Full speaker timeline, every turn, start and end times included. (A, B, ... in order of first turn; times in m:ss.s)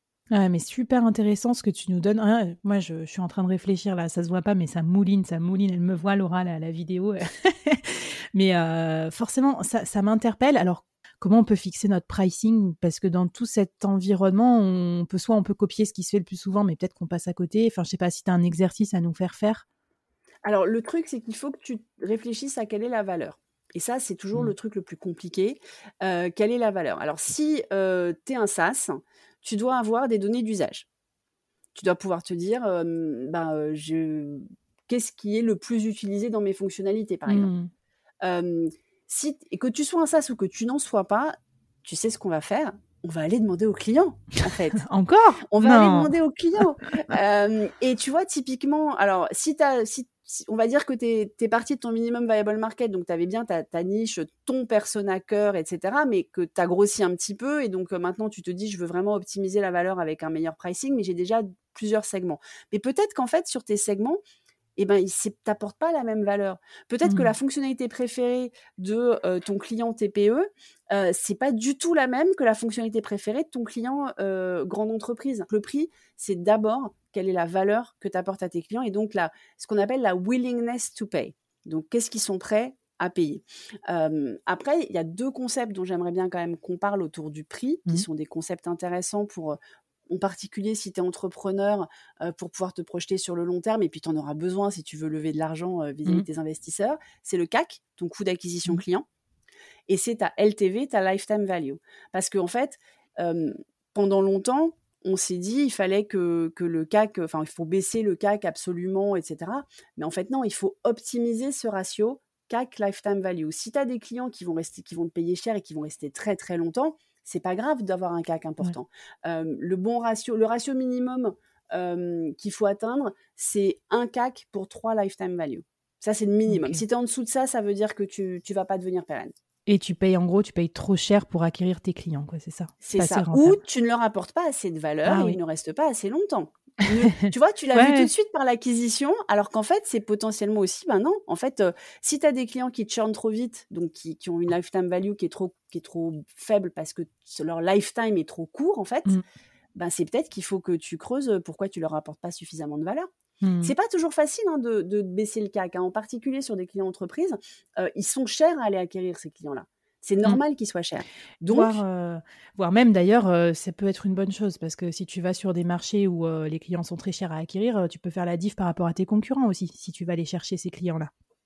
0:00.3-0:19.6 A
0:20.4-0:30.9 B
0:31.7-0:37.5 B
0:37.3-0:37.7 A
0:38.2-0:44.8 B
0:44.8-0:46.1 A
0:45.5-1:04.2 B
1:04.8-1:29.6 B
1:30.1-1:39.0 B
1:39.9-2:09.3 B
2:06.5-2:06.8 A
2:09.7-2:13.6 A
2:12.8-2:29.2 B
2:15.0-2:15.4 A
2:17.7-2:18.1 A
2:29.8-2:33.1 B
2:33.4-2:33.7 A
2:33.6-2:41.8 B
2:41.5-2:51.1 A